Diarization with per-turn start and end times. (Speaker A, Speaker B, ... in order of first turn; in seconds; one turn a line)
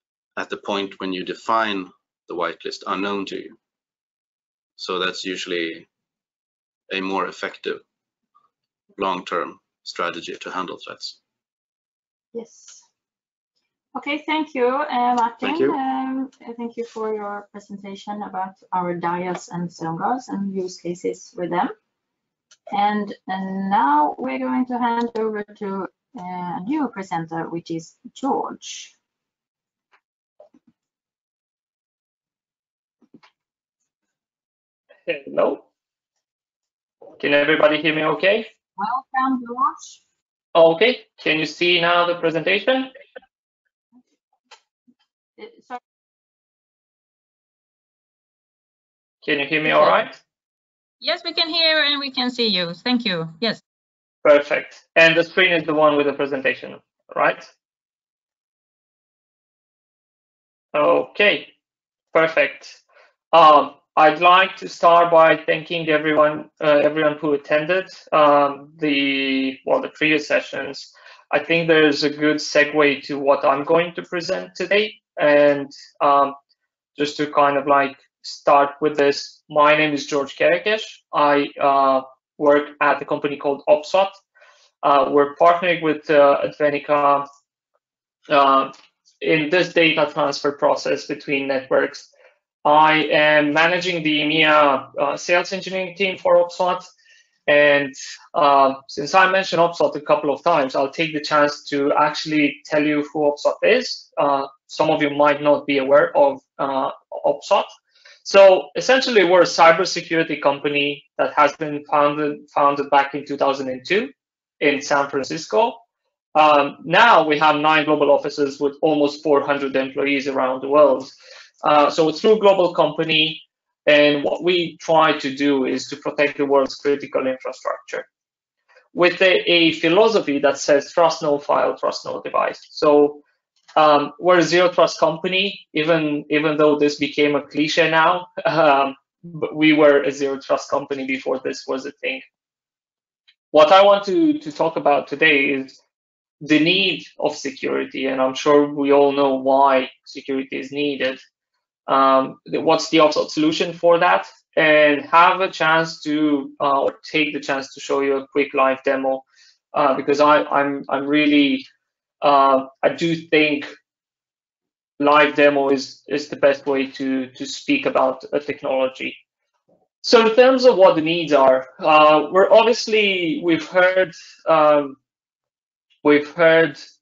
Speaker A: 0.4-3.6
Speaker A: 4.8-5.9
Speaker A: 6.9-7.8
Speaker A: 9.0-11.2
Speaker B: 12.3-12.8
Speaker B: 14.0-21.7
Speaker A: 15.4-15.8
Speaker B: 22.8-26.0
Speaker B: 26.6-28.9
Speaker C: 35.1-35.6
Speaker C: 37.2-38.5
Speaker B: 39.7-40.0
Speaker C: 40.5-42.9
Speaker C: 49.2-50.2
Speaker D: 51.0-53.6
Speaker C: 54.2-57.5
Speaker C: 60.7-61.5
Speaker C: 62.1-62.8
Speaker C: 63.3-76.4
Speaker C: 77.0-84.2
Speaker C: 84.8-87.3
Speaker C: 88.3-92.1
Speaker C: 92.6-96.9
Speaker C: 97.5-107.7
Speaker C: 108.2-115.8
Speaker C: 116.3-128.1
Speaker C: 128.9-133.2
Speaker C: 133.8-142.2
Speaker C: 143.5-145.8
Speaker C: 146.4-151.2
Speaker C: 151.9-161.7
Speaker C: 162.2-163.7
Speaker C: 165.0-169.2
Speaker C: 170.0-175.0
Speaker C: 176.0-176.8